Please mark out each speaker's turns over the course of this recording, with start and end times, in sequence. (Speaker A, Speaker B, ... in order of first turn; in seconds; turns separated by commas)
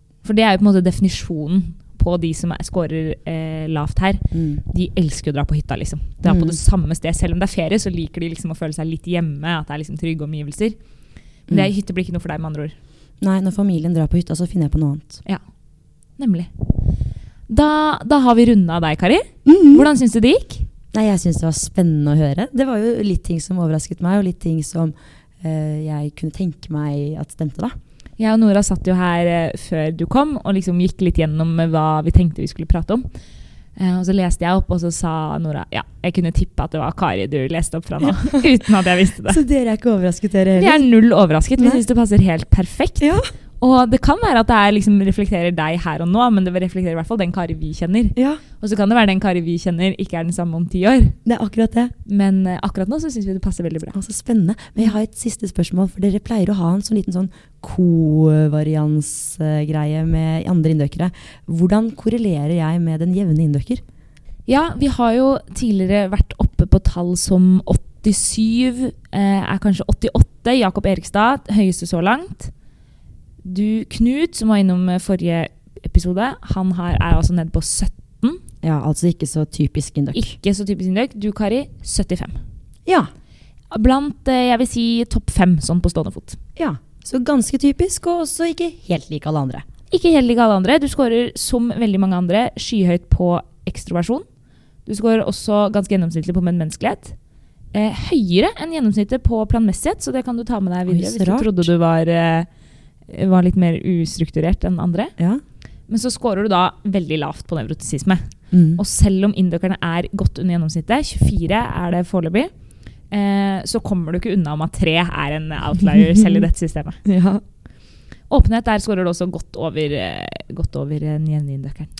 Speaker A: 0.2-10.8, Speaker B: 4.3-4.6, Speaker B: 6.2-6.6, Speaker A: 11.5-12.8, Speaker B: 13.2-15.2, Speaker A: 16.2-16.5, Speaker A: 17.5-20.7, Speaker B: 19.4-19.9, Speaker B: 20.9-27.8, Speaker A: 28.2-33.1, Speaker A: 33.8-39.4, Speaker B: 39.3-40.9, Speaker A: 40.5-51.1, Speaker B: 41.6-41.8, Speaker B: 43.0-43.3, Speaker B: 48.1-48.4, Speaker B: 51.2-51.9, Speaker A: 52.0-54.0, Speaker B: 53.9-63.8, Speaker A: 64.5-72.5, Speaker A: 73.4-78.4, Speaker B: 78.6-80.3, Speaker A: 80.1-82.4, Speaker A: 83.7-86.4, Speaker B: 86.5-89.6, Speaker A: 89.9-94.2, Speaker A: 94.8-97.2, Speaker A: 97.7-102.5, Speaker B: 100.9-101.7, Speaker A: 103.1-105.1, Speaker A: 105.9-112.5, Speaker B: 108.5-108.8, Speaker A: 113.1-117.0, Speaker B: 117.0-117.4, Speaker A: 118.3-121.9